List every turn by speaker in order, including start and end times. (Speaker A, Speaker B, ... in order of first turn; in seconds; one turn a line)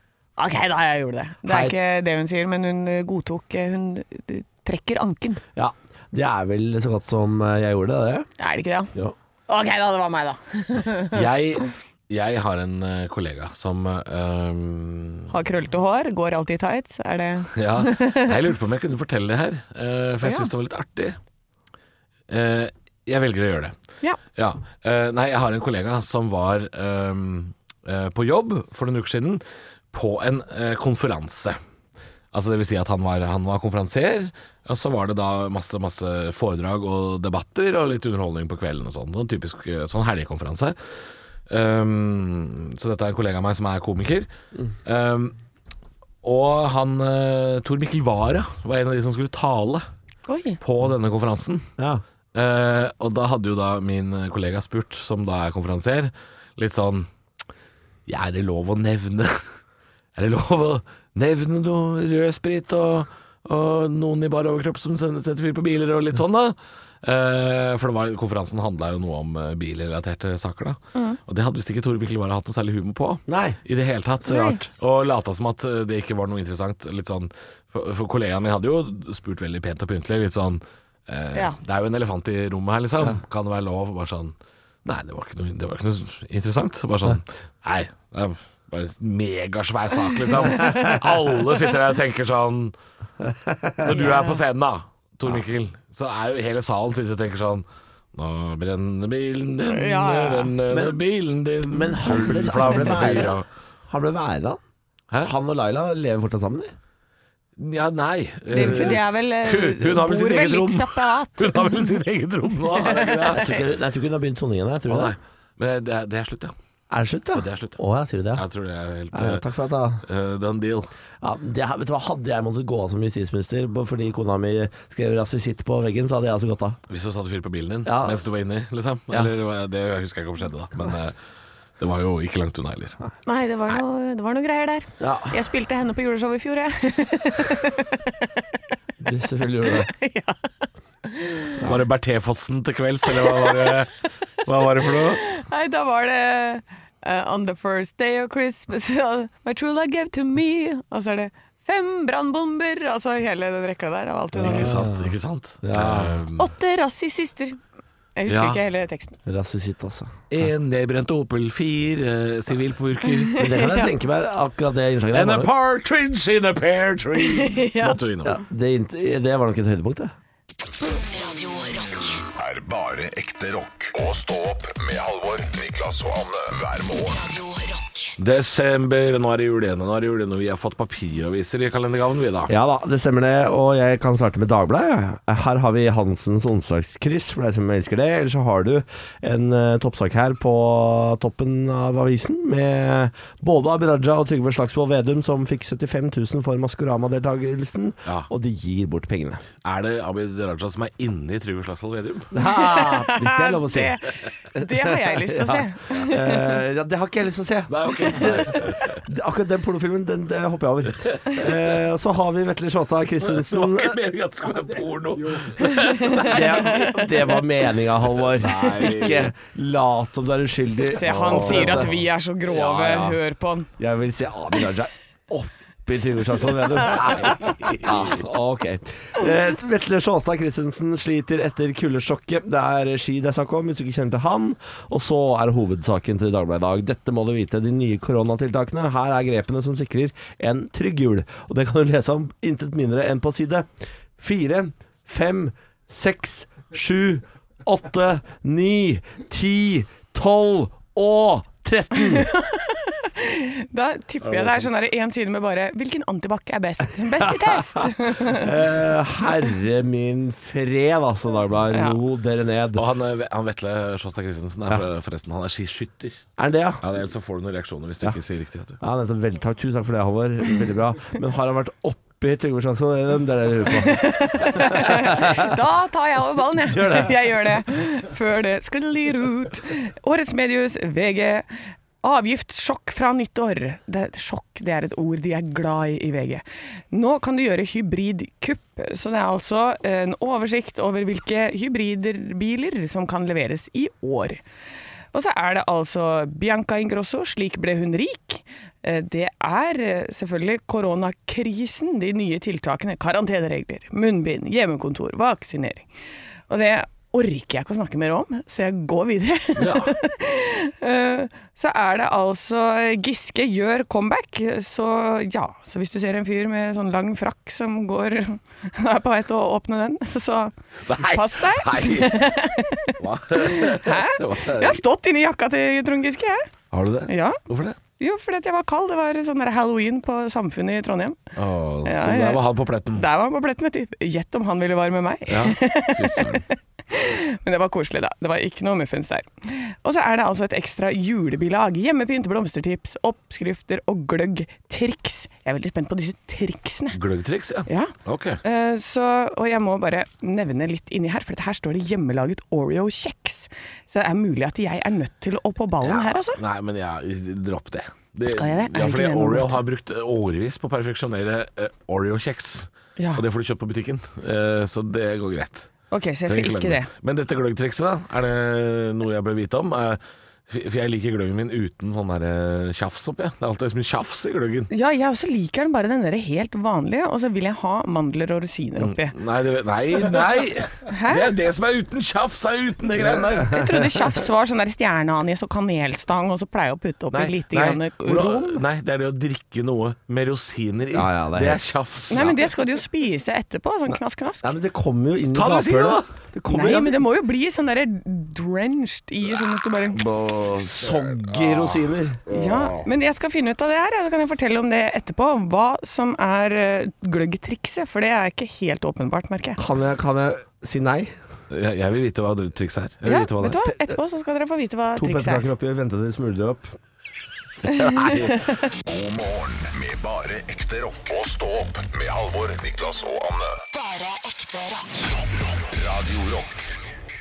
Speaker A: 0.4-5.4
Speaker B: 1.4-1.7
Speaker B: 5.5-8.3
Speaker A: 8.4-8.9
Speaker A: 9.5-11.2
Speaker C: 11.1-15.3
Speaker A: 15.3-18.4
Speaker C: 17.5-21.2
Speaker A: 20.2-20.5
Speaker C: 22.3-23.7
Speaker C: 24.3-31.6
Speaker C: 32.3-40.8
Speaker C: 41.5-44.3
Speaker C: 44.9-45.3
Speaker C: 46.2-49.8
Speaker A: 50.3-50.6
Speaker C: 50.6-51.6
Speaker B: 51.8-52.0
Speaker C: 52.3-57.1
Speaker C: 58.1-59.4
Speaker C: 60.1-92.7
Speaker B: 73.3-73.6
Speaker A: 74.2-74.6
Speaker B: 93.2-94.0
Speaker C: 93.8-103.4
Speaker A: 93.9-94.4
Speaker A: 99.7-100.5
Speaker B: 100.7-101.0
Speaker B: 101.7-104.6
Speaker B: 105.2-106.7
Speaker C: 107.6-113.5
Speaker A: 108.5-112.0
Speaker B: 108.6-108.9
Speaker A: 112.6-113.5
Speaker B: 113.3-115.1
Speaker C: 114.9-116.5
Speaker B: 116.9-118.4
Speaker C: 117.3-117.8
Speaker C: 118.3-119.4
Speaker B: 119.1-120.0
Speaker C: 120.0-120.9
Speaker B: 121.2-126.8
Speaker C: 126.9-131.2
Speaker B: 127.8-128.2
Speaker C: 131.8-133.0
Speaker A: 133.2-138.3
Speaker B: 135.0-135.4
Speaker B: 139.0-139.9
Speaker A: 139.7-140.5
Speaker A: 141.0-141.6
Speaker C: 141.6-145.2
Speaker A: 143.1-143.6
Speaker A: 145.0-154.8
Speaker B: 154.3-156.2
Speaker C: 154.4-156.5
Speaker A: 156.4-157.6
Speaker A: 158.2-159.2
Speaker C: 158.3-158.6
Speaker B: 159.2-160.1
Speaker C: 160.3-163.4
Speaker A: 163.0-163.9
Speaker B: 163.4-165.5
Speaker C: 165.1-168.4
Speaker A: 167.2-168.0
Speaker B: 168.2-170.1
Speaker D: 170.8-172.3
Speaker E: 172.3-177.2
Speaker D: 177.0-178.2
Speaker C: 178.2-182.5
Speaker B: 182.5-199.4
Speaker C: 199.6-202.3
Speaker B: 202.3-204.0
Speaker A: 202.4-206.6
Speaker B: 204.5-214.0
Speaker C: 207.7-209.0
Speaker C: 211.0-211.6
Speaker C: 213.2-216.5
Speaker A: 215.6-217.4
Speaker B: 216.2-221.9
Speaker C: 218.1-219.3
Speaker A: 220.8-223.7
Speaker C: 221.1-222.0
Speaker B: 222.5-223.2
Speaker B: 223.8-252.3
Speaker C: 226.9-228.1
Speaker A: 252.0-258.5
Speaker C: 254.3-254.7
Speaker B: 257.2-262.8
Speaker A: 261.7-262.0
Speaker C: 262.7-266.3
Speaker B: 266.4-266.8
Speaker C: 266.8-268.8
Speaker B: 268.8-275.6
Speaker A: 273.8-281.5
Speaker B: 276.6-277.2
Speaker A: 282.0-294.4
Speaker A: 295.1-305.9
Speaker A: 306.5-326.5
Speaker C: 309.6-309.9
Speaker C: 320.9-322.3
Speaker C: 323.0-324.8
Speaker C: 326.7-327.8
Speaker A: 327.1-327.4
Speaker A: 328.0-331.2
Speaker C: 331.4-333.0
Speaker A: 331.8-347.0
Speaker C: 335.3-336.4
Speaker C: 346.9-348.4
Speaker A: 347.7-356.4
Speaker C: 355.8-365.7
Speaker A: 358.2-359.6
Speaker A: 363.0-363.2
Speaker A: 365.9-366.9
Speaker C: 366.3-374.7
Speaker A: 374.7-379.1
Speaker C: 378.8-383.7
Speaker A: 380.9-381.3
Speaker B: 383.1-383.6
Speaker A: 383.4-388.6
Speaker C: 387.1-392.4
Speaker B: 390.9-391.6
Speaker A: 392.1-394.5
Speaker B: 394.4-397.0
Speaker C: 395.3-396.1
Speaker A: 396.5-400.0
Speaker C: 400.0-402.8
Speaker B: 400.0-402.2
Speaker A: 402.3-409.6
Speaker B: 409.6-411.1
Speaker C: 411.5-413.6
Speaker A: 413.0-415.4
Speaker B: 414.9-416.7
Speaker A: 417.7-418.6
Speaker C: 417.8-418.3
Speaker E: 418.8-423.6
Speaker D: 423.7-425.2
Speaker E: 425.4-426.7